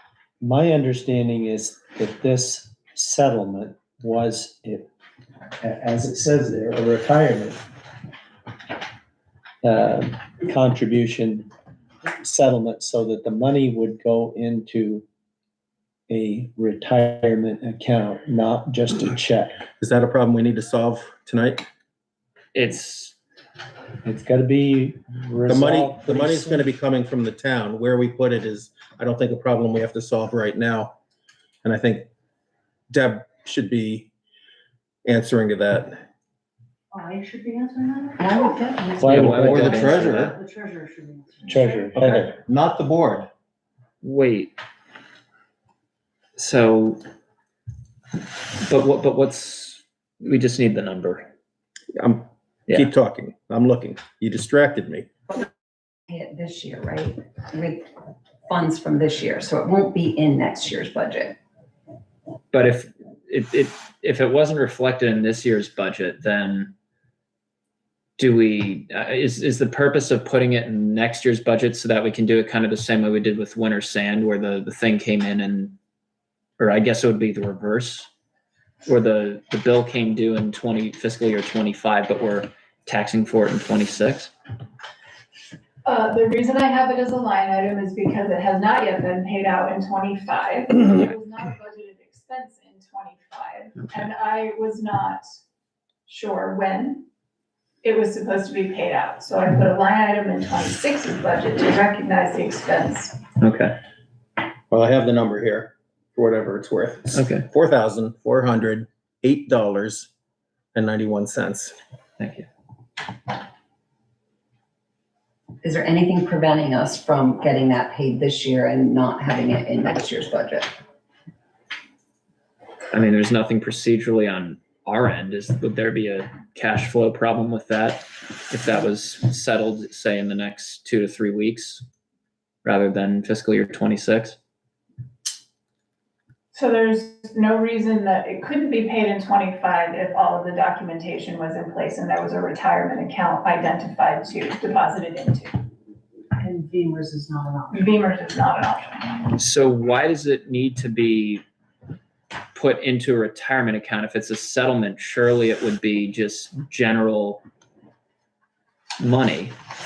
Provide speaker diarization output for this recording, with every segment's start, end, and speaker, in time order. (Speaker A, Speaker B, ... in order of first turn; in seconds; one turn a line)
Speaker A: 0.4-4.9
Speaker A: 5.6-7.6
Speaker A: 9.6-11.5
Speaker A: 12.2-15.1
Speaker A: 16.1-19.6
Speaker B: 19.8-21.7
Speaker C: 22.5-23.1
Speaker A: 24.0-26.6
Speaker B: 25.5-30.9
Speaker B: 31.6-32.1
Speaker B: 32.9-34.1
Speaker B: 35.0-36.0
Speaker D: 36.9-38.5
Speaker E: 38.2-39.4
Speaker A: 39.0-39.9
Speaker C: 39.0-40.3
Speaker B: 39.3-40.4
Speaker D: 39.8-41.9
Speaker A: 41.5-42.2
Speaker B: 42.0-43.3
Speaker C: 44.0-44.5
Speaker C: 46.4-47.0
Speaker C: 48.5-51.3
Speaker B: 52.0-55.1
Speaker E: 56.1-57.9
Speaker E: 58.5-61.4
Speaker C: 62.5-66.7
Speaker C: 68.2-75.8
Speaker C: 76.6-78.1
Speaker C: 78.9-84.3
Speaker F: 85.8-95.2
Speaker F: 96.1-97.1
Speaker F: 97.8-103.2
Speaker C: 103.4-103.8
Speaker B: 104.7-110.1
Speaker C: 107.1-107.5
Speaker B: 110.7-111.8
Speaker C: 112.2-112.5
Speaker E: 115.6-120.7
Speaker C: 122.9-131.8
Speaker C: 132.6-134.4
Speaker F: 136.5-145.6
Speaker D: 146.4-147.9
Speaker F: 147.7-149.2
Speaker C: 149.3-151.4
Speaker C: 152.5-157.4
Speaker C: 159.0-159.6